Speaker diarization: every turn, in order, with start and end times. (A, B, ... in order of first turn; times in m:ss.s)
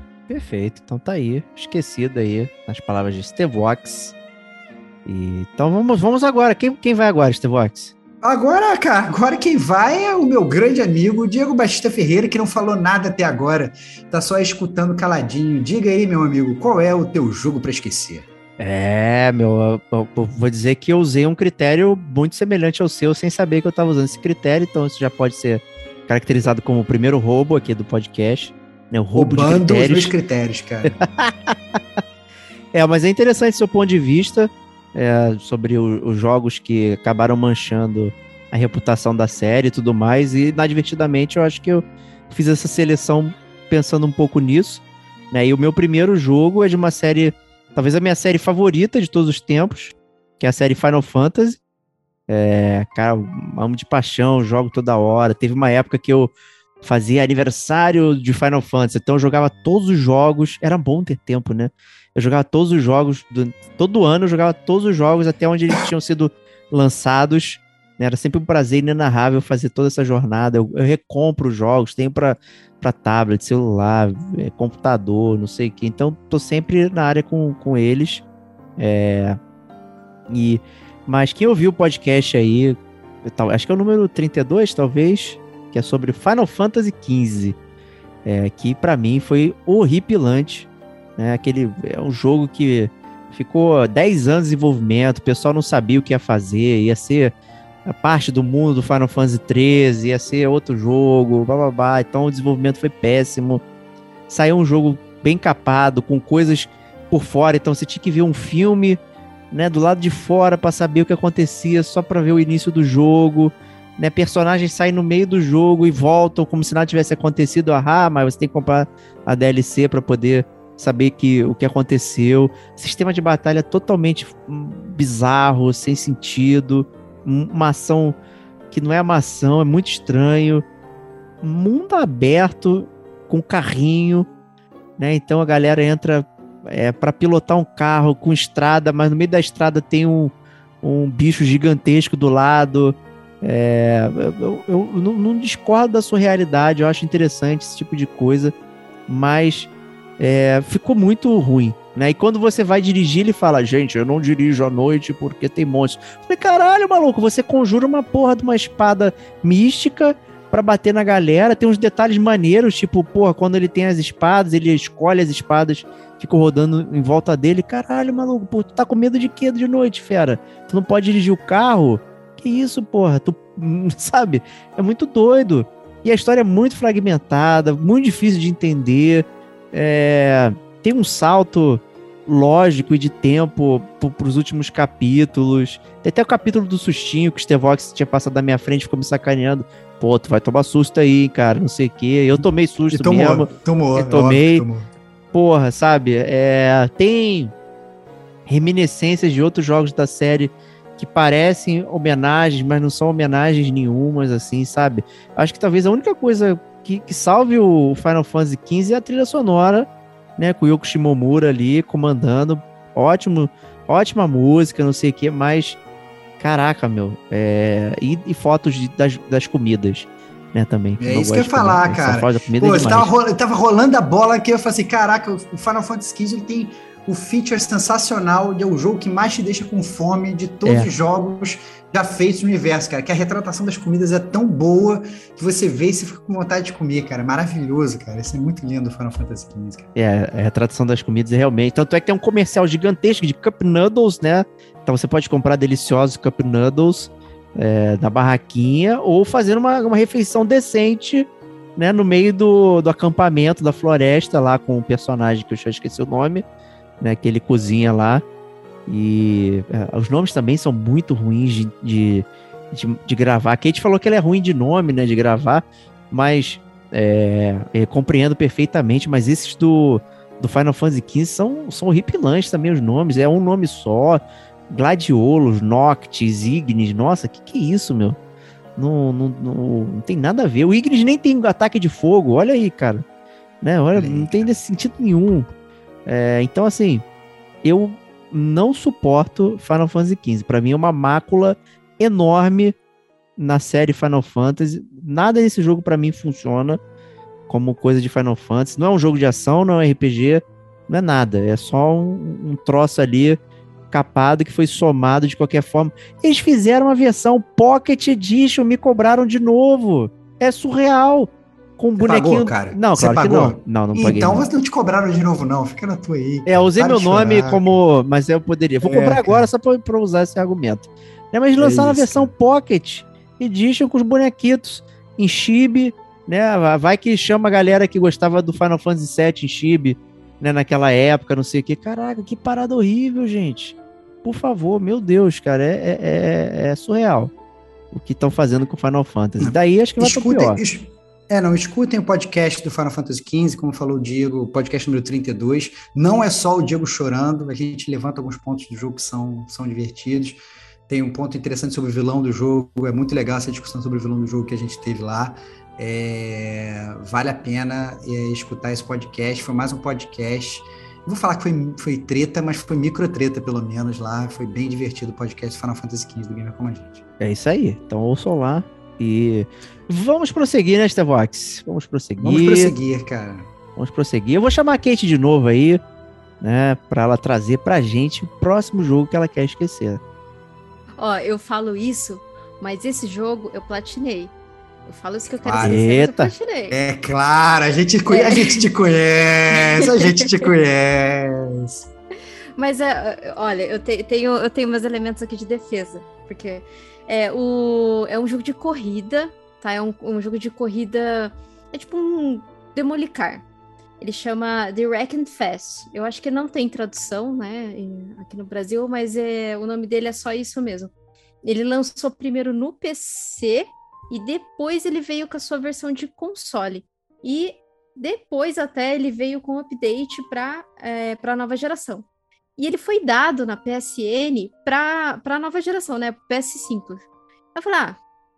0:00.3-0:04.2 A
0:05.0-0:07.9 A
0:08.2-0:18.3 B
0:18.6-0:30.1 A
0:29.2-0:31.0 B
0:30.8-0:32.0 A
0:32.7-0:51.6 A
0:52.3-0:56.3 A
0:56.8-1:18.2 A
1:18.8-1:19.4 A
1:20.3-1:27.6 A
1:28.2-1:37.3 A
1:37.8-1:43.6 A
1:44.3-1:49.0 A
1:49.5-2:08.2 A
2:08.7-2:10.6 A
2:11.4-2:14.3 A
2:15.0-2:28.5 A
2:29.1-3:14.7 A
3:12.9-3:14.9 B
3:15.3-3:17.5 A
3:18.5-3:35.8 A
3:36.4-3:43.1 A
3:41.0-3:59.9 B
3:50.6-3:50.9 A
4:00.0-4:16.4 A
4:17.0-4:18.2 A
4:18.9-4:38.2 A
4:38.8-4:43.0 A
4:43.6-4:45.5 A
4:44.0-4:44.6 B
4:46.1-4:47.0 A
4:47.6-4:52.8 A
4:53.4-4:56.8 A
4:57.5-5:03.4 A
5:03.9-5:14.4 A
5:12.0-5:17.7 B
5:16.5-5:37.3 A
5:18.8-5:19.5 B
5:21.6-5:22.3 B
5:37.9-5:40.6 A
5:39.4-6:07.0 B
6:07.2-6:12.7 A
6:12.2-6:13.5 B
6:13.8-6:15.8 A
6:16.4-6:20.0 A
6:21.0-6:24.3 C
6:24.9-6:26.8 C
6:25.4-6:25.8 B
6:25.6-6:26.3 A
6:26.7-6:31.9 B
6:28.1-6:28.6 C
6:29.5-6:30.5 C
6:32.6-6:43.4 C
6:44.0-6:50.9 C
6:51.4-7:02.1 C
7:02.6-7:07.0 C
7:07.6-7:08.0 C